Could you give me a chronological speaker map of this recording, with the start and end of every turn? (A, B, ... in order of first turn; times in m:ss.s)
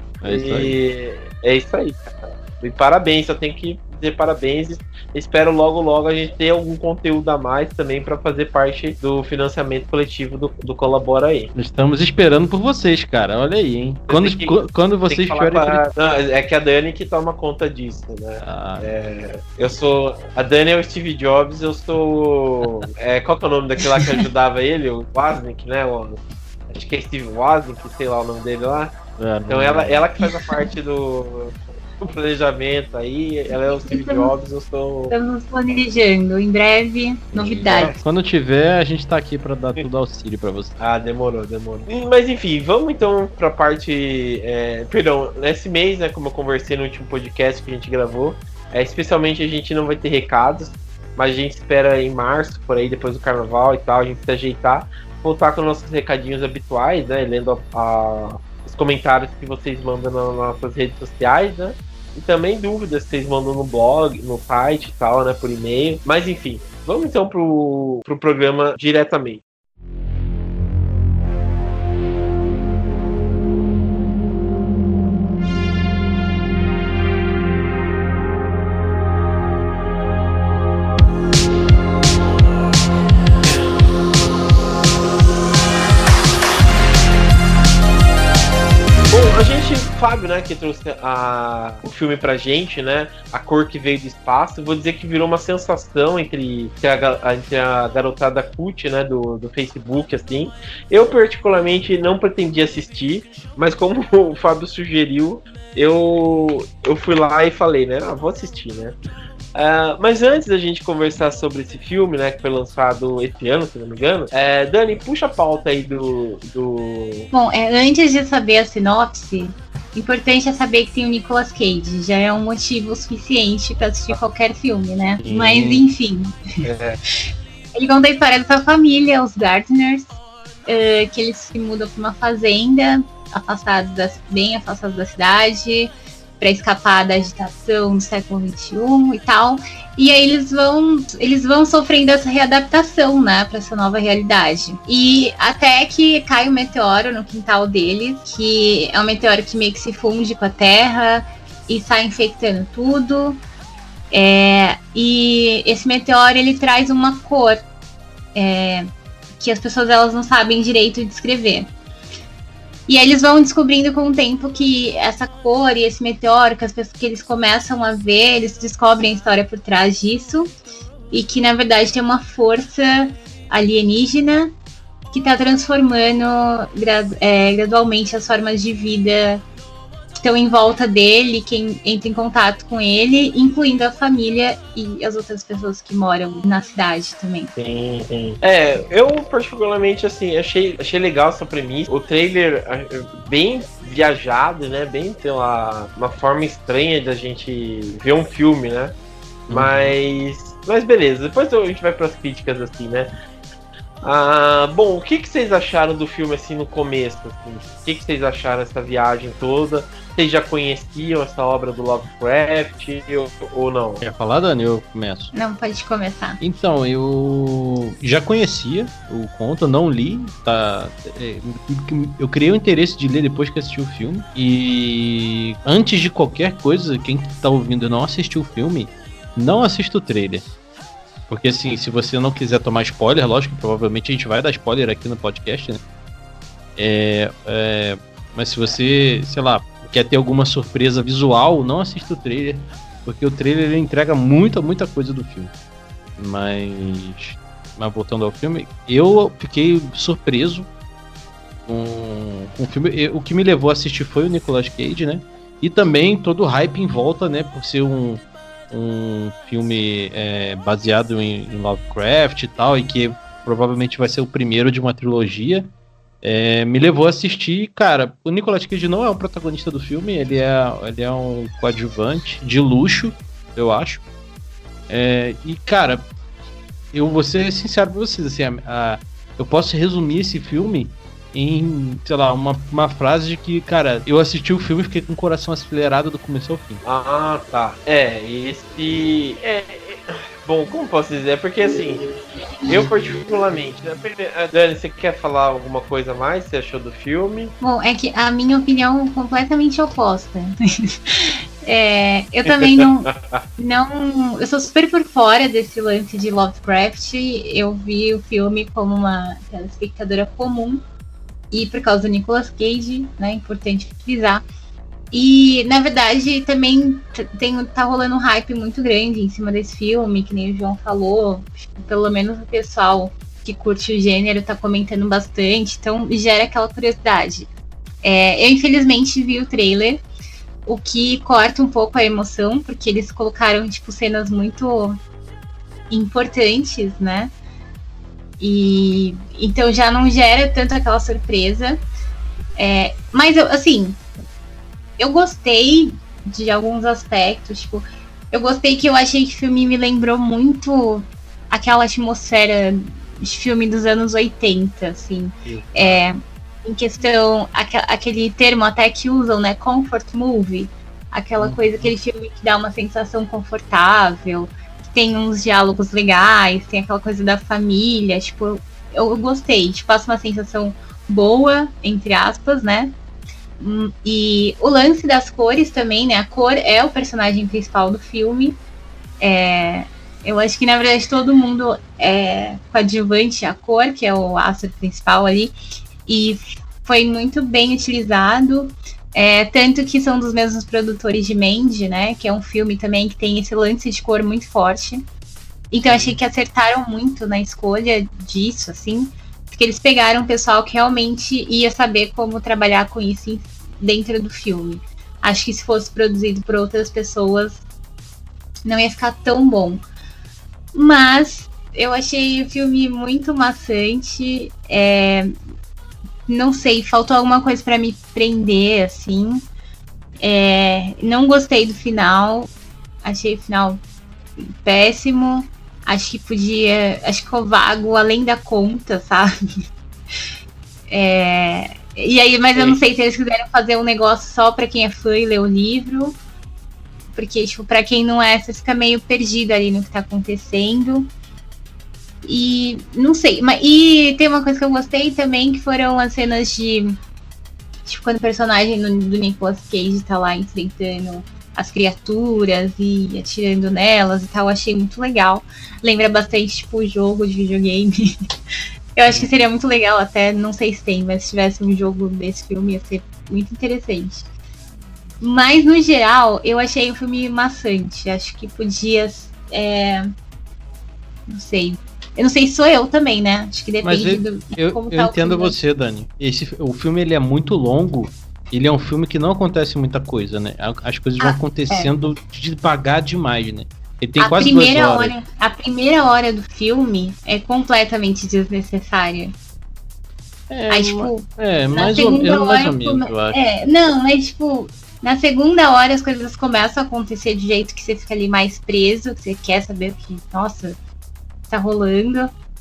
0:00.2-0:00.7 A
0:00.2-0:11.5 B
0:11.6-0:15.8 A
0:14.1-0:28.9 B
0:18.4-0:18.9 A
0:29.2-0:30.1 A
0:29.5-0:35.1 B
0:30.2-0:30.7 C
0:33.5-0:34.3 C
0:35.1-0:37.9 C
0:37.3-0:40.8 A
0:37.6-0:38.0 B
0:40.8-1:09.4 B
1:29.1-1:49.0 B
1:49.5-1:57.3 B
1:57.3-2:06.4 C
2:05.2-2:05.8 A
2:06.6-2:07.0 B
2:07.8-2:33.4 C
2:34.1-2:37.6 C
2:38.3-2:41.7 C
2:42.9-2:50.5 C
2:51.1-2:54.5 C
2:55.1-2:59.4 C
3:00.2-3:07.5 C
3:07.6-3:18.9 B
3:19.5-3:19.9 A
3:19.5-3:23.1 B
3:24.0-3:34.0 B
3:34.0-3:35.3 A
3:35.3-3:36.4 C
3:36.4-3:50.4 A
3:51.3-3:55.8 A
3:56.8-4:05.5 A
4:06.2-4:10.7 A
4:11.7-4:25.7 A
4:26.2-4:34.0 A
4:34.9-4:36.1 A
4:36.9-4:46.8 A
4:46.8-4:52.1 B
4:52.6-4:57.5 B
4:57.6-5:10.8 C
5:02.6-5:03.4 B
5:11.5-5:14.4 C
5:15.1-5:27.5 C
5:28.0-5:30.0 C
5:30.6-5:35.0 C
5:35.9-5:37.3 C
5:38.4-5:41.8 C
5:42.6-5:44.0 C
5:45.0-6:12.9 C
5:55.4-5:56.0 A
6:01.4-6:01.9 A
6:13.6-6:18.6 C
6:19.2-6:35.0 C
6:35.7-6:47.6 C
6:48.6-6:49.8 C
6:50.7-6:55.3 C
6:56.3-6:59.4 C
7:00.2-7:02.5 C
7:03.0-7:03.8 C
7:04.4-7:09.3 C
7:10.9-7:16.2 C
7:12.5-7:12.8 B
7:17.1-7:21.1 C
7:22.2-7:27.0 C
7:27.8-7:38.1 C
7:38.9-7:44.3 C
7:45.2-7:50.1 C
7:51.3-7:55.6 C
7:53.8-8:05.1 A
8:01.2-8:01.9 C
8:04.2-8:09.3 C
8:10.5-8:13.4 A
8:10.7-8:20.8 C
8:21.5-8:22.3 C